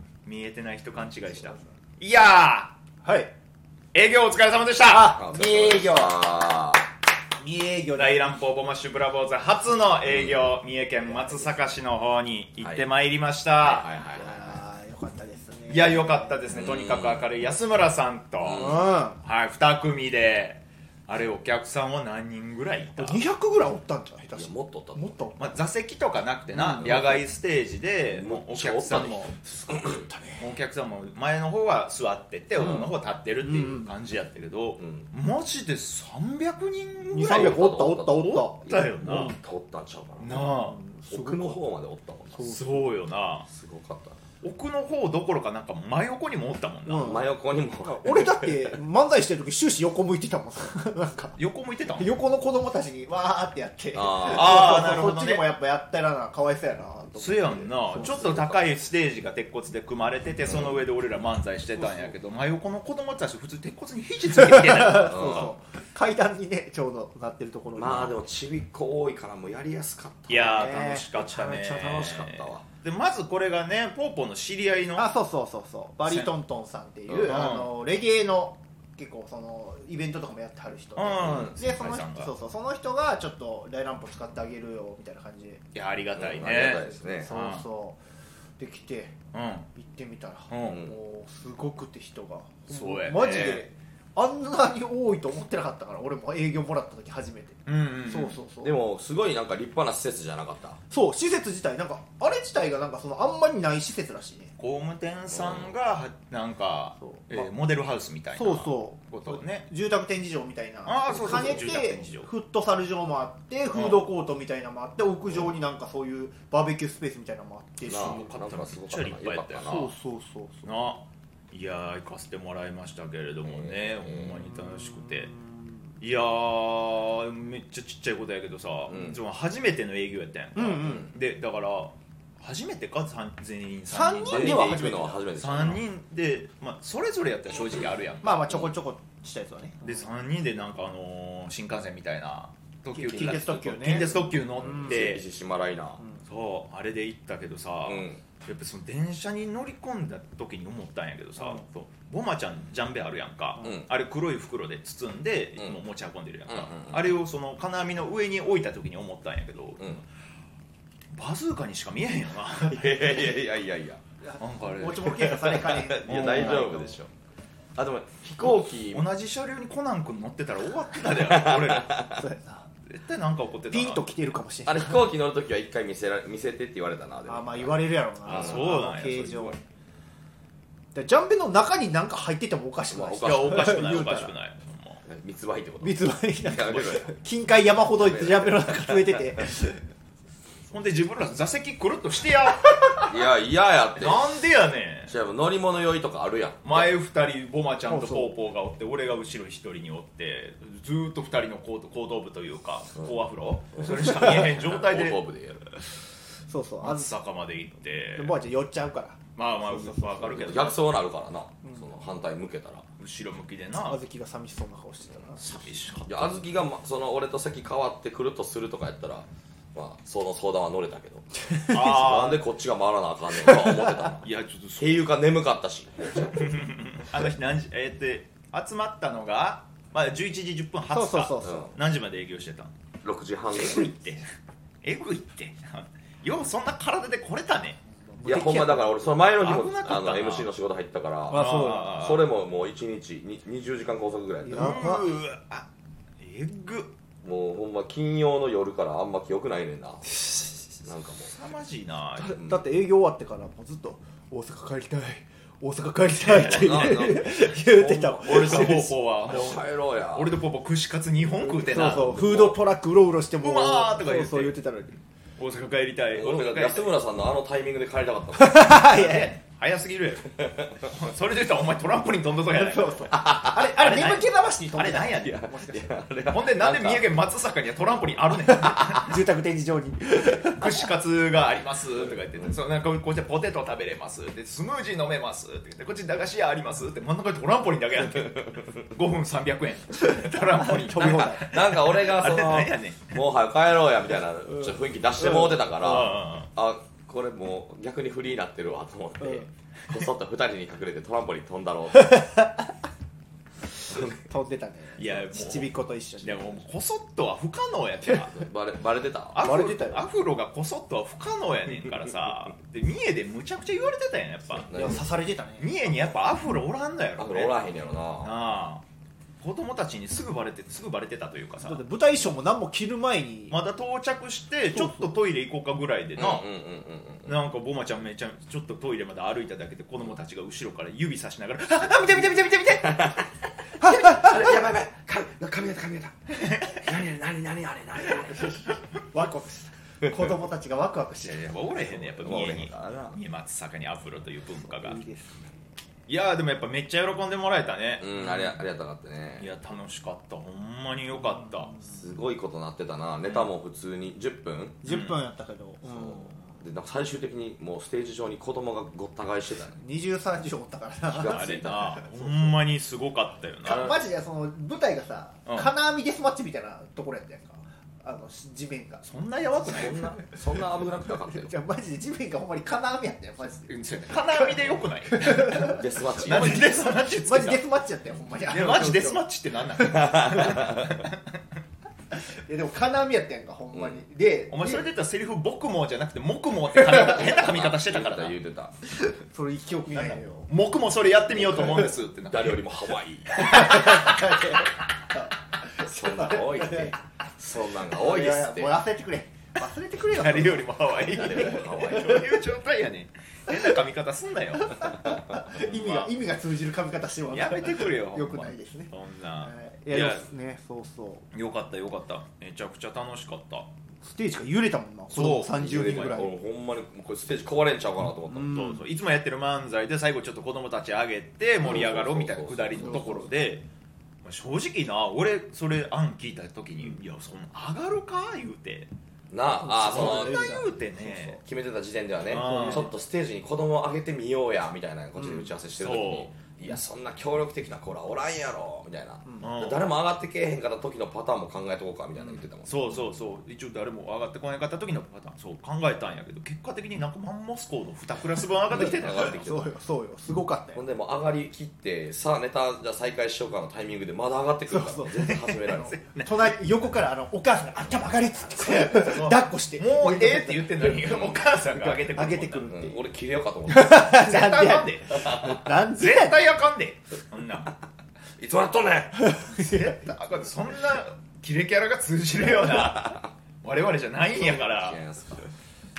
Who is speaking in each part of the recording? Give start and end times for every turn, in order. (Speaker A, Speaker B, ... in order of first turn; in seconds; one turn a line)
Speaker A: 0.2-2.7
Speaker B: 3.0-3.3
Speaker A: 3.9-5.1
Speaker B: 4.8-6.2
Speaker C: 5.1-6.8
Speaker B: 7.4-8.4
Speaker A: 8.0-13.9
Speaker C: 10.1-10.5
Speaker B: 11.0-11.5
Speaker C: 12.6-12.9
Speaker C: 13.6-14.6
Speaker B: 14.1-16.4
Speaker A: 15.7-23.2
Speaker C: 16.5-17.3
Speaker C: 18.4-18.9
Speaker B: 18.5-19.2
Speaker B: 23.0-25.6
Speaker C: 24.3-25.2
Speaker A: 25.4-29.4
Speaker B: 26.6-27.0
Speaker C: 26.8-27.2
Speaker C: 28.1-30.1
Speaker B: 29.4-30.5
Speaker A: 30.4-37.6
Speaker C: 32.6-32.9
Speaker B: 32.6-33.9
Speaker C: 34.8-35.1
Speaker B: 37.1-39.4
Speaker C: 37.2-40.5
Speaker A: 38.6-39.4
Speaker A: 40.2-40.8
Speaker B: 40.3-41.6
Speaker C: 41.1-42.5
Speaker B: 42.3-42.9
Speaker A: 42.5-43.5
Speaker C: 43.5-44.2
Speaker A: 44.4-47.2
Speaker B: 46.9-47.3
Speaker C: 47.0-48.8
Speaker B: 47.8-51.4
Speaker A: 51.4-52.1
Speaker B: 52.0-58.5
Speaker C: 53.9-55.0
Speaker A: 54.2-55.4
Speaker A: 57.2-65.5
Speaker C: 57.9-58.6
Speaker C: 60.5-60.8
Speaker B: 61.8-62.1
Speaker B: 64.3-68.2
Speaker C: 65.0-65.5
Speaker C: 67.7-72.6
Speaker A: 70.3-75.1
Speaker B: 70.4-71.0
Speaker B: 75.0-85.6
Speaker A: 76.0-76.3
Speaker C: 77.1-77.4
Speaker A: 77.2-77.7
Speaker A: 81.0-82.3
Speaker A: 85.7-87.6
Speaker C: 86.2-87.3
Speaker B: 86.9-88.0
Speaker B: 88.6-89.1
Speaker A: 89.3-89.7
Speaker B: 89.7-98.8
Speaker A: 90.5-90.8
Speaker C: 90.7-91.0
Speaker A: 92.7-93.7
Speaker C: 93.3-93.6
Speaker A: 97.7-98.4
Speaker C: 98.6-100.8
Speaker B: 100.9-104.5
Speaker A: 104.6-109.7
Speaker C: 105.3-105.7
Speaker B: 107.0-107.5
Speaker B: 108.3-118.3
Speaker A: 110.8-112.3
Speaker C: 111.1-111.5
Speaker A: 113.7-114.0
Speaker C: 117.8-119.9
Speaker A: 117.9-119.9
Speaker B: 119.6-120.7
Speaker A: 120.6-125.3
Speaker C: 123.4-124.4
Speaker B: 124.3-125.7
Speaker A: 126.0-138.5
Speaker C: 128.9-129.2
Speaker B: 130.6-131.1
Speaker B: 133.9-135.2
Speaker C: 134.3-135.8
Speaker B: 138.2-140.1
Speaker A: 139.8-145.2
Speaker B: 142.9-145.0
Speaker C: 144.6-146.0
Speaker A: 146.2-160.0
Speaker C: 147.8-148.2
Speaker C: 153.6-153.9
Speaker C: 156.5-157.2
Speaker A: 161.1-163.0
Speaker C: 162.6-164.0
Speaker B: 164.2-167.0
Speaker A: 164.4-166.8
Speaker C: 165.2-167.1
Speaker C: 167.7-169.1
Speaker A: 168.9-172.0
Speaker C: 171.1-172.2
Speaker B: 172.2-172.7
Speaker A: 172.8-174.0
Speaker B: 173.7-175.1
Speaker C: 174.7-178.7
Speaker B: 177.2-179.6
Speaker A: 178.2-179.6
Speaker B: 180.9-184.3
Speaker C: 182.9-184.0
Speaker A: 183.2-185.0
Speaker C: 185.1-187.1
Speaker B: 185.8-189.8
Speaker C: 187.9-189.4
Speaker A: 190.7-193.1
Speaker C: 193.1-194.3
Speaker A: 194.0-195.1
Speaker C: 195.1-196.9
Speaker A: 196.6-205.2
Speaker B: 197.9-198.3
Speaker C: 203.7-205.7
Speaker B: 206.5-207.1
Speaker A: 206.8-208.4
Speaker B: 208.2-210.4
Speaker A: 209.3-210.8
Speaker C: 210.3-212.8
Speaker B: 211.6-211.9
Speaker A: 213.0-214.0
Speaker B: 213.8-215.4
Speaker A: 215.4-216.3
Speaker C: 215.5-224.3
Speaker A: 221.7-222.4
Speaker B: 223.5-224.1
Speaker A: 224.2-225.1
Speaker C: 224.8-226.5
Speaker A: 226.3-232.7
Speaker B: 230.9-231.7
Speaker C: 231.4-231.7
Speaker C: 233.0-233.9
Speaker A: 233.5-234.2
Speaker A: 234.8-237.8
Speaker B: 238.1-239.1
Speaker C: 238.2-244.9
Speaker A: 239.4-240.5
Speaker B: 241.3-241.9
Speaker A: 241.3-242.3
Speaker B: 244.4-245.1
Speaker A: 244.5-245.7
Speaker A: 246.2-246.9
Speaker C: 247.2-250.0
Speaker B: 250.2-250.5
Speaker C: 250.8-251.3
Speaker A: 251.2-252.4
Speaker B: 252.2-258.9
Speaker C: 252.3-252.6
Speaker A: 256.2-257.1
Speaker C: 256.3-260.4
Speaker A: 258.2-262.5
Speaker B: 261.5-265.0
Speaker C: 261.7-262.6
Speaker A: 263.4-264.6
Speaker A: 265.4-266.9
Speaker C: 266.1-269.0
Speaker B: 268.4-269.3
Speaker A: 268.8-275.4
Speaker C: 270.4-270.8
Speaker B: 272.5-275.9
Speaker C: 273.1-273.6
Speaker C: 275.2-277.2
Speaker A: 276.3-279.2
Speaker B: 278.5-280.8
Speaker A: 280.4-293.2
Speaker C: 288.2-288.6
Speaker B: 290.1-291.6
Speaker C: 290.9-302.2
Speaker B: 295.3-295.6
Speaker A: 295.7-296.5
Speaker B: 299.2-299.4
Speaker B: 302.0-302.5
Speaker B: 303.9-306.6
Speaker A: 305.0-305.7
Speaker A: 306.2-308.4
Speaker C: 308.3-309.4
Speaker A: 309.3-314.7
Speaker B: 309.4-310.1
Speaker C: 314.6-315.0
Speaker B: 314.7-315.7
Speaker A: 315.6-317.6
Speaker C: 317.2-318.3
Speaker A: 318.2-318.8
Speaker A: 319.4-321.8
Speaker B: 321.6-323.6
Speaker A: 323.5-326.4
Speaker B: 324.7-325.1
Speaker C: 326.1-327.3
Speaker A: 327.2-333.1
Speaker C: 332.8-336.1
Speaker B: 333.8-334.1
Speaker A: 336.4-336.8
Speaker C: 336.7-338.8
Speaker B: 339.1-341.5
Speaker C: 340.0-340.3
Speaker A: 341.2-345.0
Speaker C: 341.8-343.2
Speaker B: 344.6-345.4
Speaker A: 346.1-348.5
Speaker C: 348.0-349.5
Speaker A: 349.4-351.8
Speaker C: 351.9-354.8
Speaker B: 354.8-356.4
Speaker A: 354.9-355.2
Speaker C: 355.9-359.8
Speaker B: 359.8-362.5
Speaker C: 361.1-362.0
Speaker A: 361.2-363.9
Speaker B: 363.6-369.0
Speaker C: 363.6-363.9
Speaker A: 369.0-370.2
Speaker C: 369.7-371.5
Speaker B: 371.3-374.5
Speaker A: 373.7-377.6
Speaker B: 375.1-379.2
Speaker C: 375.5-376.8
Speaker A: 378.5-381.4
Speaker B: 379.8-380.5
Speaker C: 379.9-381.0
Speaker B: 382.5-384.9
Speaker C: 383.7-384.0
Speaker A: 384.5-388.4
Speaker C: 386.9-388.7
Speaker B: 389.3-390.5
Speaker A: 389.9-392.6
Speaker C: 391.6-393.8
Speaker A: 393.3-394.2
Speaker B: 393.4-397.0
Speaker C: 395.8-398.8
Speaker B: 397.9-402.2
Speaker A: 400.1-406.1
Speaker C: 401.1-402.3
Speaker B: 404.8-411.3
Speaker A: 407.3-410.2
Speaker A: 411.3-413.7
Speaker B: 414.0-416.3
Speaker A: 415.1-416.0
Speaker C: 415.2-418.6
Speaker B: 418.3-418.8
Speaker A: 418.4-423.6
Speaker C: 421.6-423.2
Speaker B: 422.9-423.2
Speaker A: 424.2-428.9
Speaker C: 429.3-430.4
Speaker B: 429.6-431.4
Speaker A: 429.8-431.4
Speaker C: 431.4-442.9
Speaker A: 432.3-432.9
Speaker B: 432.3-432.9
Speaker B: 435.2-435.5
Speaker A: 435.8-436.3
Speaker A: 439.4-439.9
Speaker A: 442.6-449.5
Speaker C: 448.7-449.7
Speaker B: 448.9-450.8
Speaker C: 450.7-455.9
Speaker B: 454.7-460.9
Speaker A: 455.3-456.5
Speaker A: 458.6-462.7
Speaker C: 461.0-461.4
Speaker B: 461.9-463.0
Speaker C: 462.7-464.2
Speaker B: 463.7-466.4
Speaker A: 464.1-465.2
Speaker C: 465.1-465.6
Speaker A: 465.9-467.7
Speaker C: 468.4-469.3
Speaker B: 469.2-470.1
Speaker A: 469.5-475.0
Speaker C: 472.7-473.2
Speaker C: 474.3-475.5